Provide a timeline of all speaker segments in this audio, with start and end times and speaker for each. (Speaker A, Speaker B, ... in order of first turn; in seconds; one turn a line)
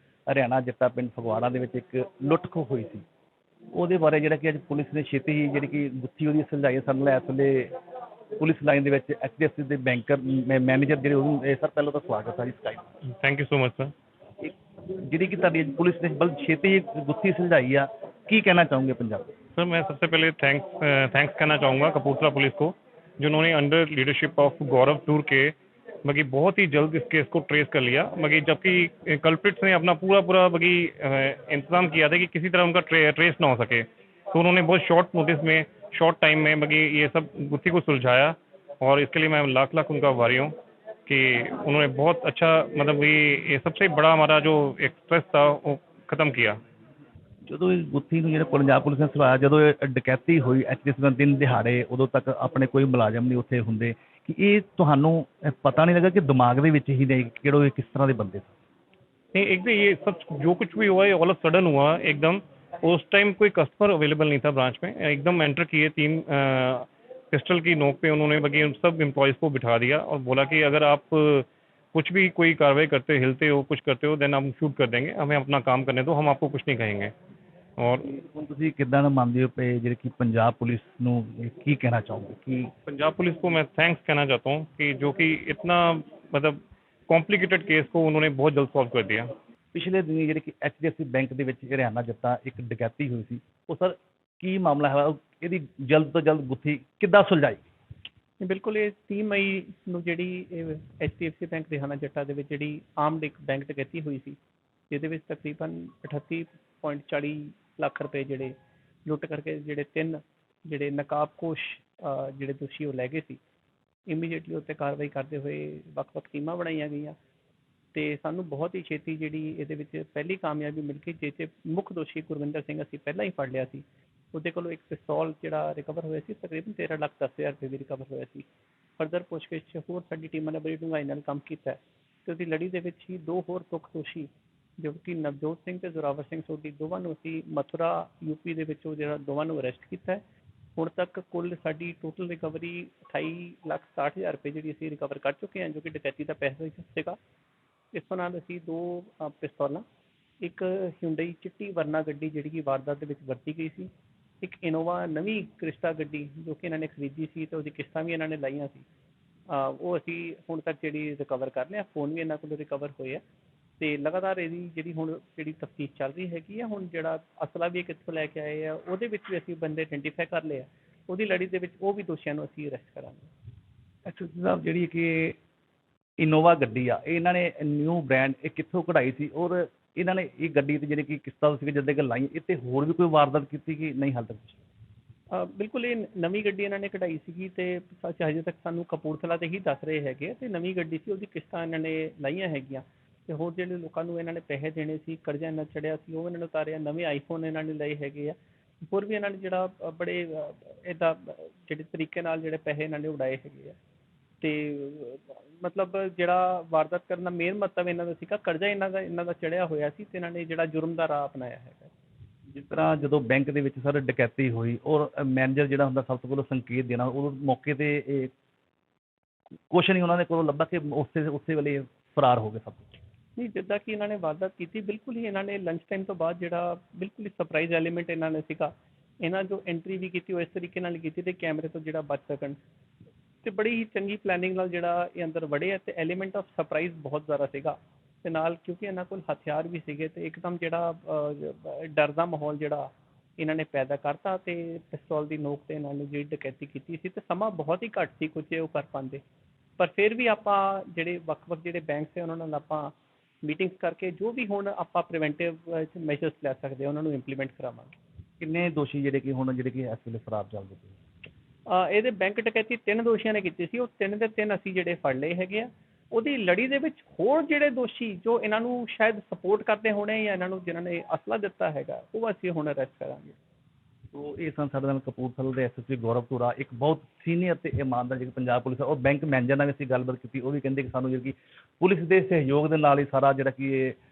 Speaker A: 0.3-3.0
Speaker A: 3.7-7.8
Speaker A: 8.4-12.9
Speaker B: 13.1-13.9
Speaker A: 14.4-19.3
Speaker B: 19.6-40.5
Speaker B: 41.1-46.6
Speaker A: 47.5-58.5
Speaker B: 59.3-77.1
Speaker B: 77.8-78.1
Speaker A: 78.0-82.7
Speaker B: 82.9-89.3
Speaker A: 89.7-97.7
Speaker C: 98.4-104.4
Speaker C: 104.9-108.5
Speaker C: 109.1-113.4
Speaker C: 114.1-117.2
Speaker C: 117.9-128.5
Speaker C: 129.0-140.2
Speaker C: 140.8-147.2
Speaker C: 147.9-149.8
Speaker C: 150.4-153.9
Speaker C: 154.4-158.8
Speaker C: 159.5-163.2
Speaker C: 163.8-173.3
Speaker A: 174.1-175.4
Speaker A: 176.2-184.6
Speaker C: 185.3-203.8
Speaker C: 204.4-211.9
Speaker A: 212.5-218.3
Speaker A: 219.7-222.9
Speaker C: 223.4-232.6
Speaker C: 233.4-249.2
Speaker C: 249.8-257.9
Speaker A: 258.4-261.0
Speaker C: 261.7-273.4
Speaker A: 274.1-284.0